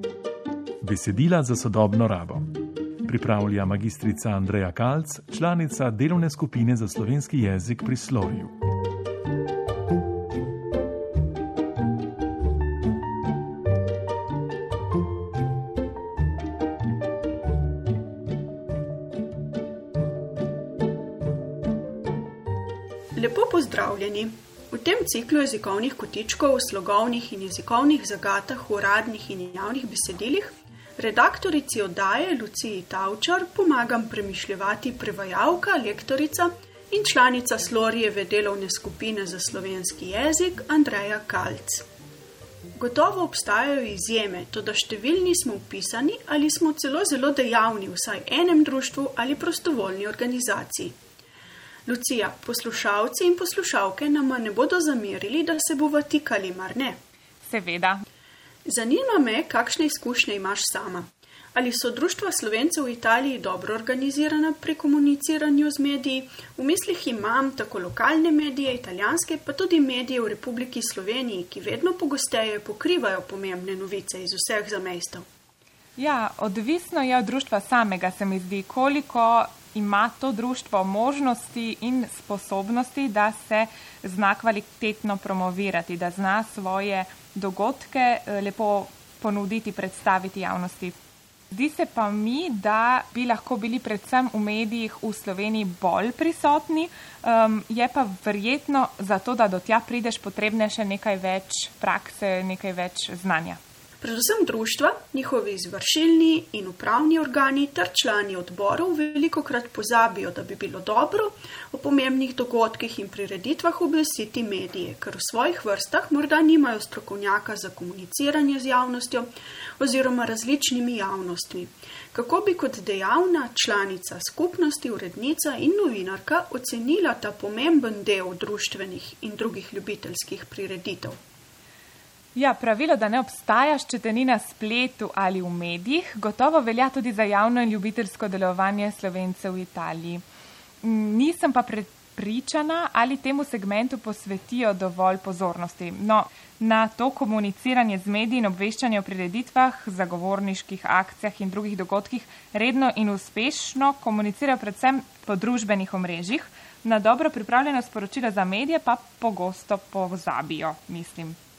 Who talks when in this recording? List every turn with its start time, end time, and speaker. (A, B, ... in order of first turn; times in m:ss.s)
0:00.8-0:02.4 A
0:03.0-0:08.5 A
0:23.2-0:41.8 B
0:42.8-0:51.0 B
0:51.9-0:57.0 B
0:57.4-0:58.0 C
0:58.7-1:15.2 B
1:16.0-1:31.0 C
1:31.5-1:43.6 C
1:44.0-2:11.2 B
2:12.4-2:20.2 C
2:20.8-2:41.4 C